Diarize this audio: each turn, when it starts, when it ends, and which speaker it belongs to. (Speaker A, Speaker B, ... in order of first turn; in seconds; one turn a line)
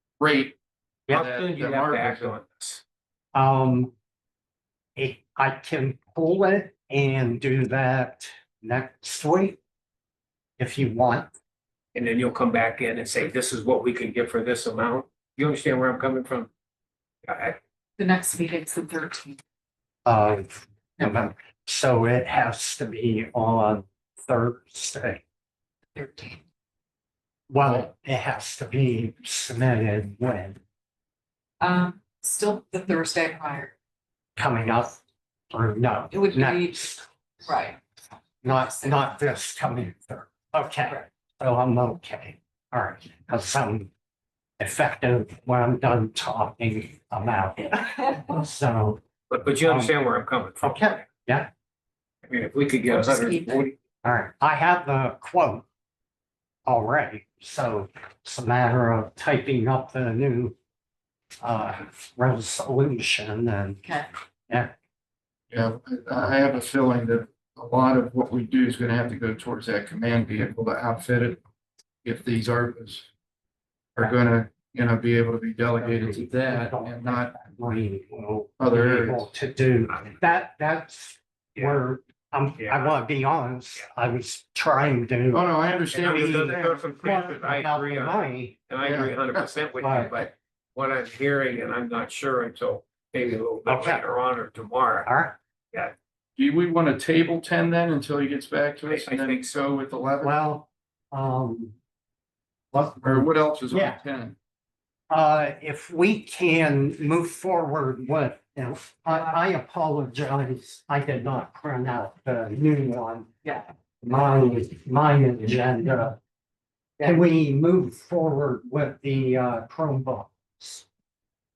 Speaker A: 0.2-0.6
Speaker A: 1.1-2.4
Speaker B: 1.1-2.8
Speaker C: 3.3-3.9
Speaker C: 5.0-9.6
Speaker C: 10.6-11.3
Speaker B: 11.9-16.5
Speaker B: 17.2-17.6
Speaker D: 18.0-19.4
Speaker C: 20.1-25.2
Speaker D: 25.9-26.4
Speaker C: 27.5-30.6
Speaker D: 31.6-33.7
Speaker C: 34.4-37.0
Speaker D: 36.1-36.9
Speaker D: 37.4-37.8
Speaker C: 38.4-43.9
Speaker D: 38.5-39.0
Speaker C: 44.6-49.0
Speaker B: 49.3-51.0
Speaker C: 49.6-50.0
Speaker C: 50.6-51.5
Speaker B: 52.3-53.7
Speaker C: 54.0-55.6
Speaker C: 56.7-60.6
Speaker C: 61.4-64.7
Speaker A: 65.5-71.4
Speaker A: 72.0-73.1
Speaker A: 74.0-77.4
Speaker C: 75.8-89.1
Speaker A: 78.6-79.3
Speaker B: 82.6-83.0
Speaker A: 85.3-86.8
Speaker B: 85.9-95.1
Speaker A: 88.8-89.5
Speaker C: 89.8-90.2
Speaker C: 93.7-94.1
Speaker C: 95.0-95.4
Speaker A: 96.4-100.4
Speaker B: 98.9-99.6
Speaker C: 100.2-101.8
Speaker C: 102.7-104.0
Speaker A: 103.0-104.4
Speaker C: 105.1-113.3
Speaker D: 113.4-113.7
Speaker C: 114.0-116.2
Speaker C: 117.0-120.8